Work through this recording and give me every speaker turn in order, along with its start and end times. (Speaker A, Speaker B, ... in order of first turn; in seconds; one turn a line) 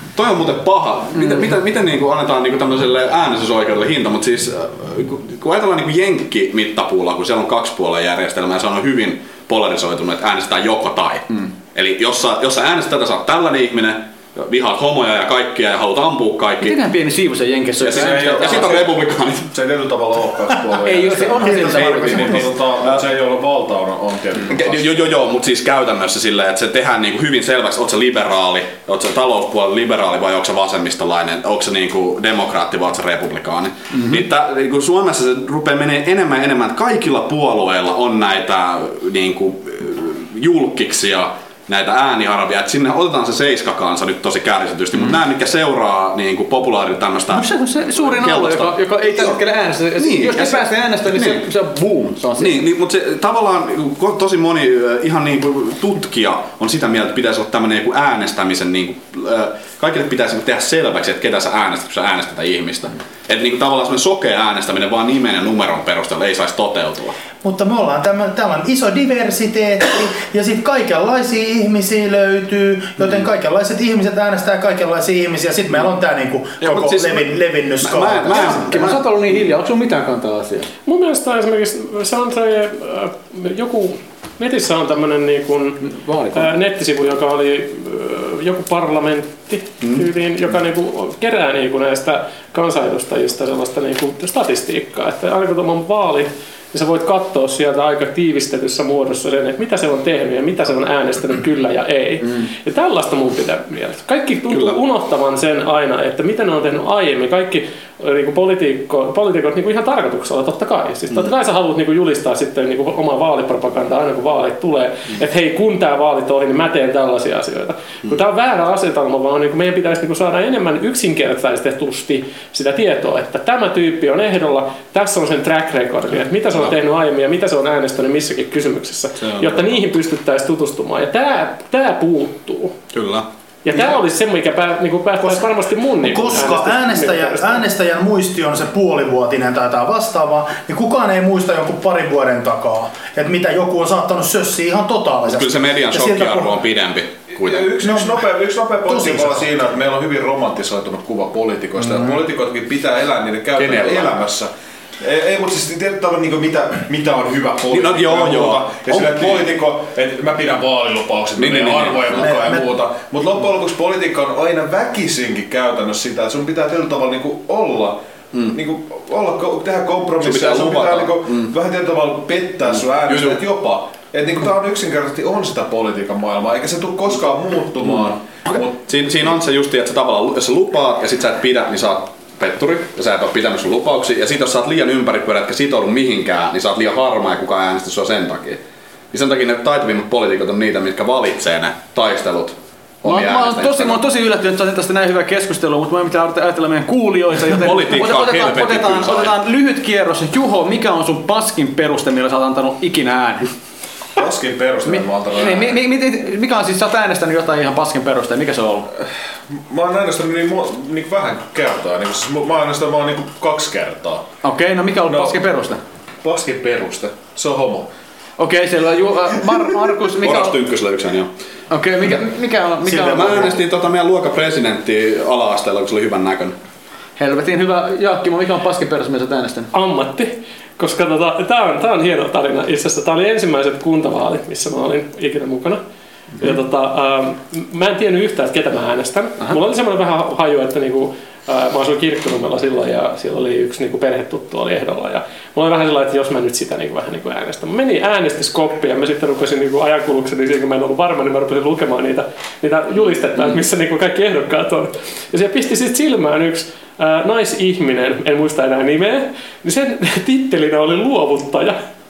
Speaker A: 0.1-16.8
Speaker B: 16.6-18.7
Speaker A: 17.8-19.5
Speaker C: 17.9-24.9
Speaker B: 20.8-22.5
Speaker D: 21.5-22.4
Speaker A: 24.5-49.4
Speaker B: 47.3-52.6
Speaker A: 50.0-51.4
Speaker A: 52.4-67.2
Speaker D: 67.4-78.6
Speaker A: 76.6-79.0
Speaker B: 78.3-80.7
Speaker E: 80.8-132.8
Speaker B: 85.8-86.5
Speaker A: 129.3-129.7
Speaker A: 132.9-133.2
Speaker E: 133.6-137.7
Speaker D: 136.0-146.6
Speaker A: 145.3-147.7
Speaker C: 147.4-168.0
Speaker D: 147.8-148.2
Speaker D: 148.8-149.5
Speaker A: 153.6-154.2
Speaker A: 157.7-159.5
Speaker A: 161.3-162.3
Speaker D: 162.2-162.7
Speaker C: 168.5-178.8
Speaker A: 170.2-171.5
Speaker A: 173.0-173.4
Speaker A: 178.5-194.0
Speaker B: 193.0-203.5
Speaker A: 197.4-199.3
Speaker C: 204.2-205.8
Speaker B: 204.9-208.9
Speaker C: 209.5-214.3
Speaker B: 214.4-215.8
Speaker C: 215.1-215.4
Speaker C: 216.2-217.9
Speaker B: 218.4-220.6
Speaker A: 220.2-221.3
Speaker B: 221.7-223.5
Speaker A: 222.8-226.6
Speaker B: 227.2-229.7
Speaker E: 229.7-235.8
Speaker E: 236.4-261.8